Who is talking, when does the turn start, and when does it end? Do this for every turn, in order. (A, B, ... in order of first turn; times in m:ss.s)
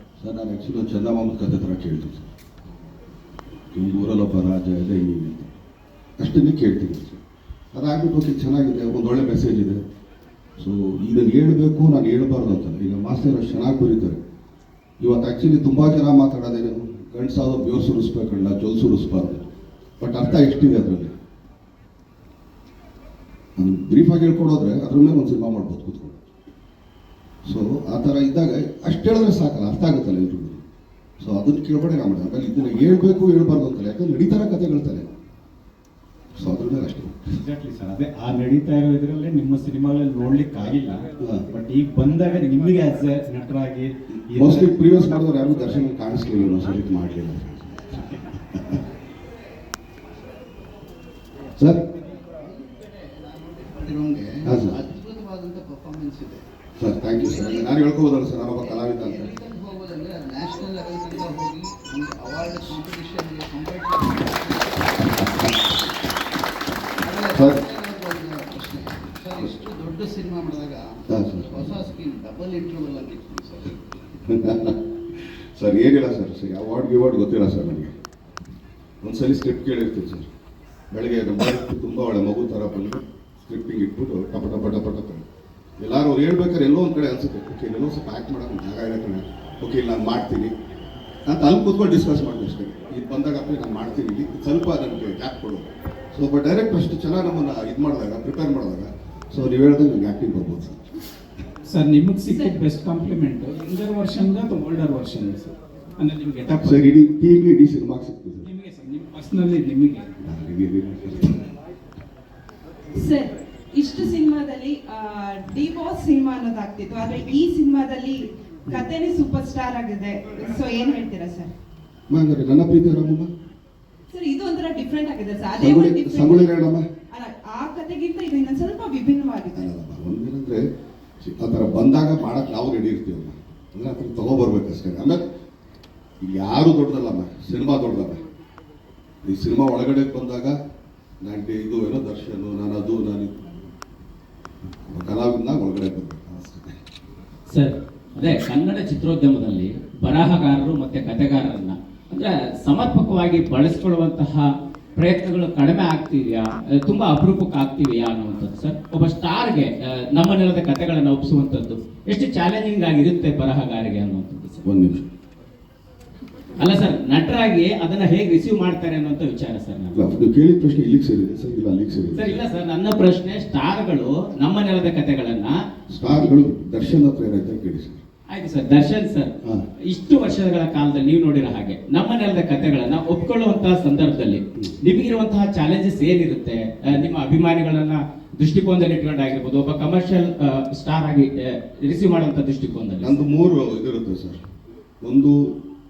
0:00.2-0:02.3 A
0:03.7-0:05.5 A
0:06.2-0:07.2 A
0:07.7-0:09.8 A
0:10.6-0:14.2 A
0:15.0-0:19.4 A
0:20.0-0:21.1 A
0:23.6-0:26.2 A
0:27.4-0:30.6 A
0:31.2-0:35.1 A
0:36.4-0:37.2 A
0:37.4-0:44.7 B
0:44.3-0:48.8 A
0:51.6-0:51.8 A
0:52.4-0:56.5 C
0:54.4-0:54.8 A
0:56.8-0:59.3 A
0:57.2-0:57.7 C
0:58.6-1:05.3 C
1:07.0-1:13.9 C
1:07.3-1:07.6 A
1:11.1-1:11.7 A
1:14.3-1:17.9 A
1:19.0-1:20.3 A
1:20.9-1:25.2 A
1:25.8-1:30.5 A
1:31.3-1:40.8 A
1:41.7-1:46.8 D
1:46.5-1:48.5 A
1:48.5-1:50.1 D
1:50.2-1:51.5 A
1:53.0-1:58.2 E
1:58.7-2:01.5 E
2:02.1-2:03.3 A
2:04.1-2:06.4 E
2:05.6-2:06.9 A
2:07.1-2:09.6 E
2:09.5-2:10.6 A
2:11.2-2:15.3 A
2:16.2-2:18.2 A
2:19.2-2:20.6 A
2:21.2-2:23.5 A
2:24.9-2:26.8 A
2:27.5-2:44.6 F
2:44.6-2:45.1 A
2:46.6-2:50.0 F
2:49.9-2:52.4 A
2:52.2-2:55.6 F
2:55.9-2:58.0 A
2:58.3-2:59.3 F
2:59.9-3:13.2 F
3:13.0-3:14.4 A
3:15.0-3:15.6 A